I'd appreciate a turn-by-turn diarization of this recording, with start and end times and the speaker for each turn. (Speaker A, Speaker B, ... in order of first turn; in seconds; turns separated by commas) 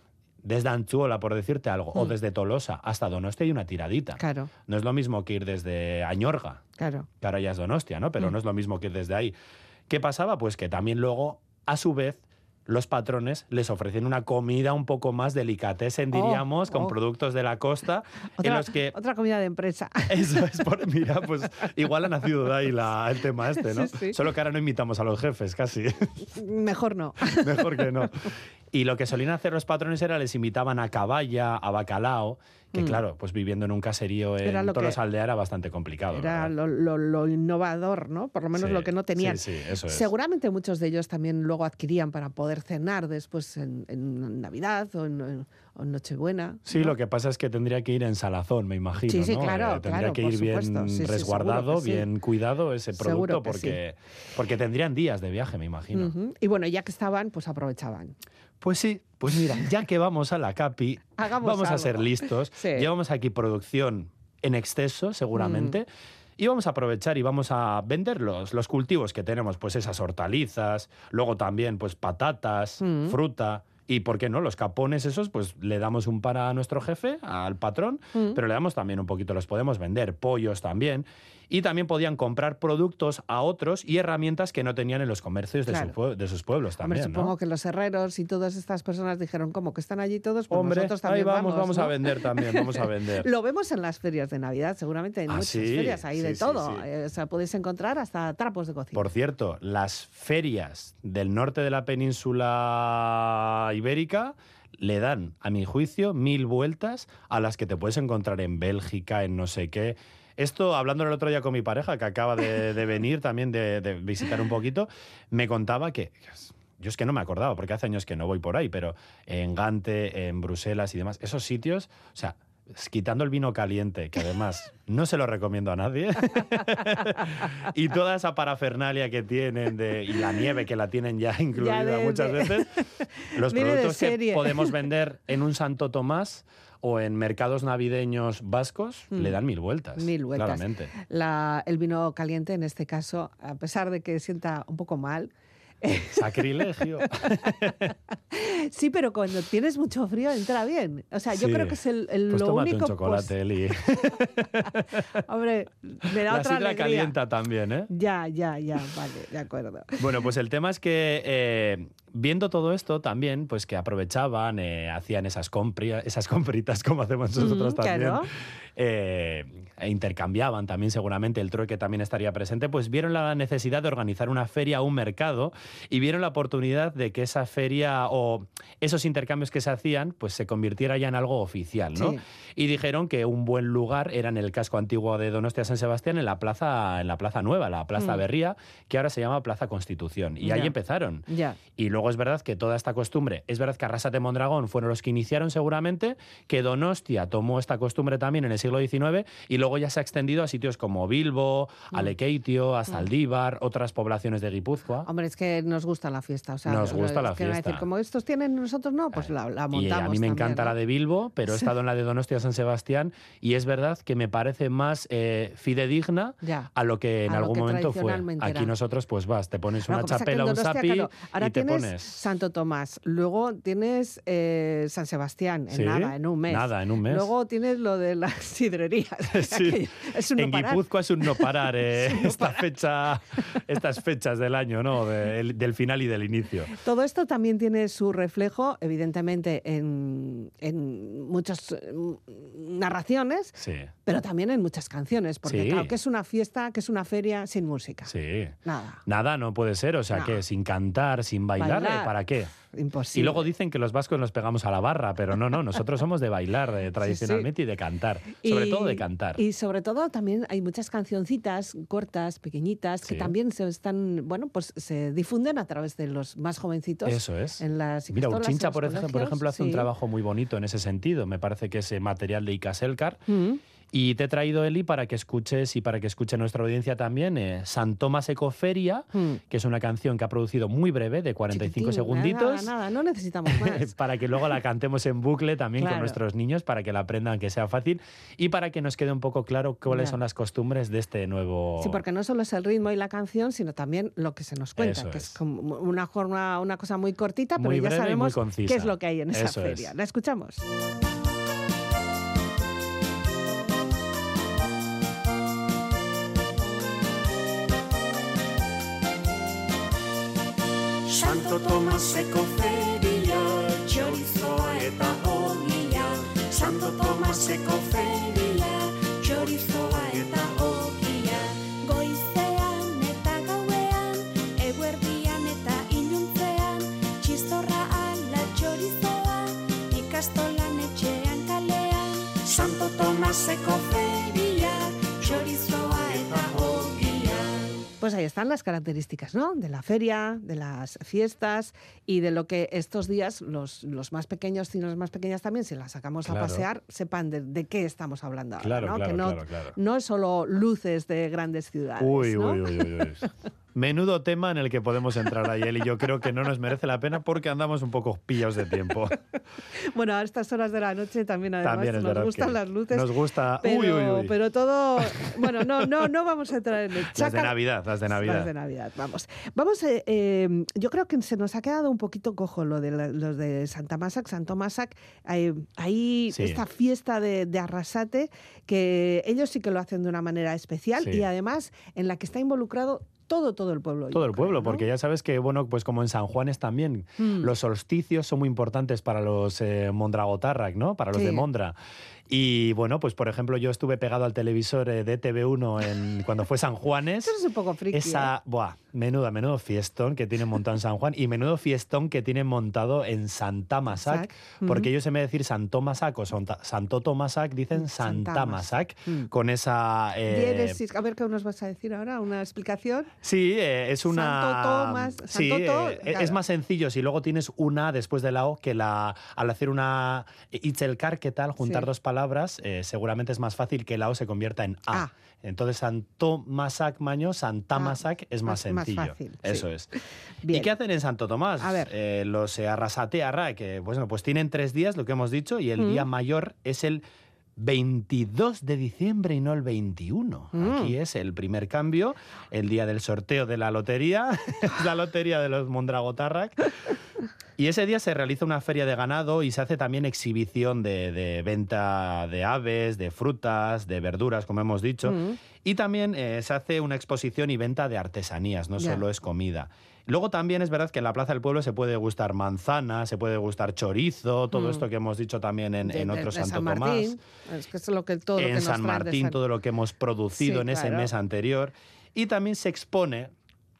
Speaker A: 0.4-6.6, Speaker B: 4.2-4.5, Speaker B: 6.8-7.1, Speaker A: 7.2-9.3, Speaker A: 9.9-18.9, Speaker B: 16.1-16.9, Speaker B: 18.4-20.5, Speaker A: 20.1-26.1, Speaker B: 23.6-24.2, Speaker B: 26.3-28.3, Speaker A: 27.2-36.5, Speaker B: 32.7-33.0, Speaker B: 34.4-35.0, Speaker B: 36.1-46.9, Speaker A: 38.5-40.1, Speaker A: 46.6-56.1, Speaker B: 49.1-52.1, Speaker B: 52.9-53.8, Speaker B: 55.9-58.1, Speaker A: 58.6-65.9, Speaker B: 61.2-62.9, Speaker B: 65.3-65.8, Speaker A: 66.4-87.3, Speaker B: 72.8-73.2, Speaker B: 78.1-78.4, Speaker B: 85.7-85.9, Speaker B: 86.8-99.0, Speaker A: 90.5-93.3, Speaker A: 95.3-96.8, Speaker A: 98.9-140.9, Speaker B: 126.3-127.3, Speaker B: 131.6-134.7, Speaker B: 139.1-139.4, Speaker B: 139.9-146.6, Speaker A: 145.9-147.9, Speaker B: 147.2-147.8, Speaker B: 148.3-153.3, Speaker A: 151.3-151.8, Speaker A: 152.3-155.0, Speaker B: 155.2-157.1, Speaker A: 156.1-157.9, Speaker B: 157.9-160.0, Speaker A: 160.0-205.1, Speaker B: 167.4-168.3, Speaker B: 181.9-182.2, Speaker B: 188.0-188.2, Speaker B: 190.4-190.7, Speaker B: 191.3-191.6, Speaker B: 205.1-210.8, Speaker A: 206.7-207.8, Speaker A: 209.1-222.2, Speaker B: 216.4-216.7, Speaker B: 217.3-218.7, Speaker B: 219.9-232.7, Speaker A: 225.7-227.3, Speaker A: 229.3-236.7, Speaker B: 236.7-243.5, Speaker A: 243.6-243.9, Speaker B: 244.1-248.1, Speaker A: 245.4-245.9, Speaker A: 248.1-248.6, Speaker B: 248.6-249.0, Speaker A: 249.1-252.5, Speaker B: 250.1-250.4, Speaker B: 251.6-253.5, Speaker A: 253.1-259.4, Speaker B: 257.1-257.5, Speaker B: 258.4-269.9, Speaker A: 263.0-263.3, Speaker A: 267.1-273.2, Speaker B: 273.3-273.6, Speaker A: 273.9-282.7, Speaker B: 279.1-279.4, Speaker B: 281.5-283.9, Speaker A: 283.5-292.0, Speaker B: 285.8-286.2, Speaker B: 289.9-290.1, Speaker B: 291.8-300.6, Speaker A: 294.8-295.4, Speaker A: 297.6-299.9, Speaker C: 311.1-337.8, Speaker B: 338.0-352.7, Speaker A: 346.2-346.6, Speaker A: 348.6-349.8, Speaker A: 352.0-359.2, Speaker B: 359.7-384.9, Speaker A: 361.6-364.3, Speaker A: 365.0-366.1, Speaker A: 367.1-368.5, Speaker A: 376.3-376.6, Speaker A: 381.0-381.2, Speaker A: 384.1-391.8, Speaker B: 387.2-387.5, Speaker B: 391.1-391.4, Speaker A: 392.3-397.3, Speaker B: 397.2-398.3, Speaker A: 397.9-410.8, Speaker B: 404.0-404.9, Speaker B: 407.7-409.3, Speaker B: 410.3-413.1, Speaker A: 413.2-429.9, Speaker B: 414.1-416.4, Speaker B: 421.6-421.9, Speaker B: 427.7-429.7, Speaker B: 430.4-430.7, Speaker A: 430.5-437.0, Speaker B: 431.6-431.9, Speaker B: 435.8-436.1, Speaker A: 437.6-446.9, Speaker B: 440.5-440.9, Speaker A: 447.6-467.2, Speaker B: 455.0-455.4, Speaker B: 458.8-459.0, Speaker B: 464.5-464.8, Speaker B: 465.8-469.4, Speaker A: 468.4-473.3, Speaker B: 470.4-471.1